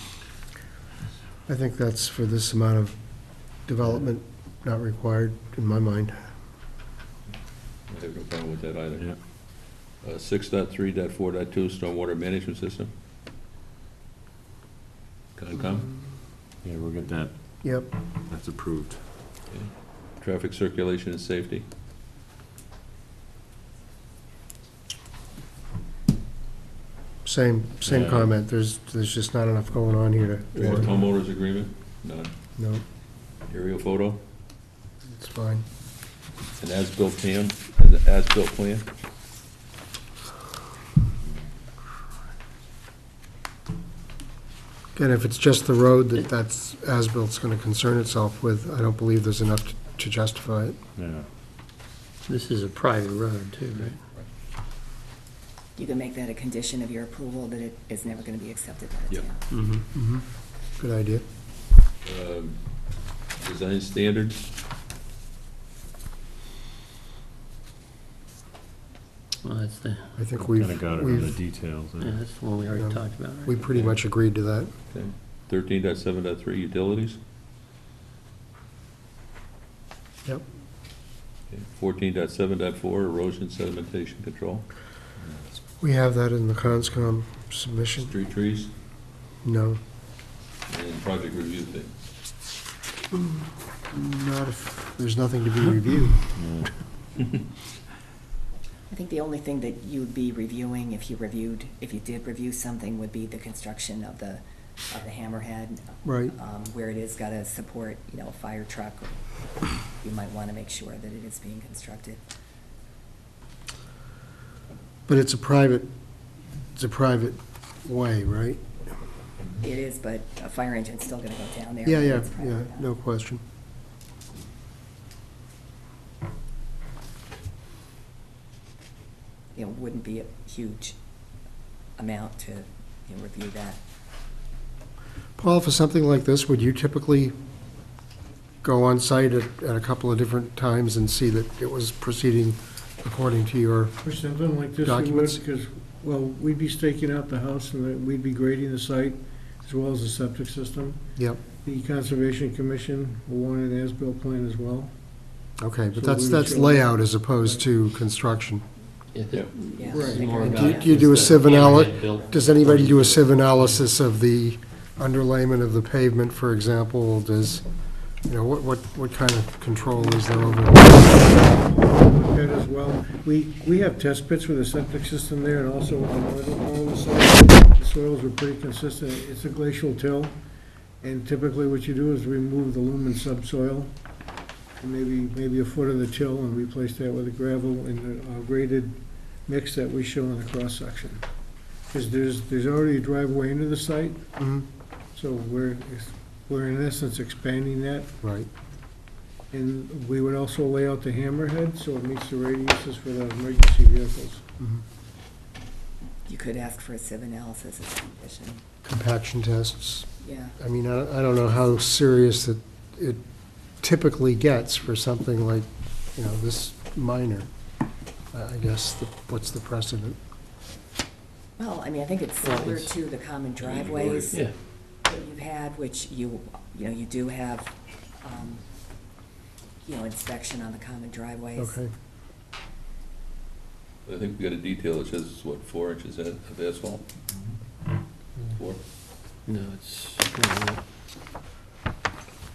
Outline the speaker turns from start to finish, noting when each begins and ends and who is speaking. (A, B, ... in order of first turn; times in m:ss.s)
0:01.5-0:02.9 A
0:03.6-0:06.2 A
0:07.9-0:09.1 B
0:10.0-0:12.9 B
0:15.4-0:15.9 B
0:16.6-0:17.3 C
0:17.6-0:17.9 A
0:18.3-0:19.0 C
0:19.5-0:21.6 B
0:27.2-0:30.9 A
0:27.9-0:28.2 C
0:30.5-0:32.3 B
0:32.6-0:32.8 A
0:33.5-0:34.2 B
0:35.0-0:35.6 A
0:36.6-0:38.9 B
0:45.0-0:50.8 A
0:51.0-0:51.3 C
0:52.3-0:54.0 D
0:55.8-0:59.4 E
0:59.5-0:59.8 D
0:59.9-1:00.2 A
1:00.8-1:01.2 A
1:02.0-1:02.6 B
1:03.4-1:04.4 B
1:09.4-1:10.1 D
1:10.2-1:11.4 A
1:10.4-1:12.2 C
1:12.0-1:13.8 D
1:12.7-1:14.7 A
1:14.9-1:17.2 B
1:21.5-1:24.7 B
1:25.8-1:28.1 A
1:28.0-1:28.7 B
1:29.4-1:29.8 A
1:30.7-1:31.9 B
1:33.2-1:36.3 A
1:36.4-1:36.7 C
1:38.9-1:49.1 E
1:46.0-1:46.3 A
1:50.0-1:52.2 E
1:55.1-1:55.9 A
1:56.7-1:58.6 A
1:59.6-2:02.9 E
2:01.8-2:03.4 A
2:09.5-2:11.0 E
2:12.0-2:13.8 E
2:15.4-2:17.3 A
2:18.6-2:23.9 A
2:24.0-2:31.0 F
2:24.8-2:25.4 A
2:31.6-2:34.9 F
2:35.6-2:38.6 A
2:35.9-2:36.9 F
2:39.1-2:43.8 D
2:39.8-2:41.7 E
2:39.8-2:40.4 F
2:40.3-2:47.6 A
2:48.2-2:51.4 A
2:51.0-3:00.3 F
3:01.0-3:03.9 F
3:04.8-3:11.2 F
3:11.9-3:14.2 F
3:14.4-3:14.7 A
3:15.1-3:18.1 F
3:18.2-3:18.5 A
3:19.5-3:24.4 F
3:26.2-3:28.6 E
3:28.8-3:33.2 A
3:30.2-3:30.5 E
3:33.8-3:37.5 A
3:38.3-3:40.2 A
3:41.6-3:44.4 E
3:42.4-3:42.9 D
3:43.6-3:44.4 B
3:45.1-3:48.6 E
3:49.8-3:51.8 E
3:51.6-3:51.9 A
3:54.0-3:57.1 B
3:59.4-4:00.8 D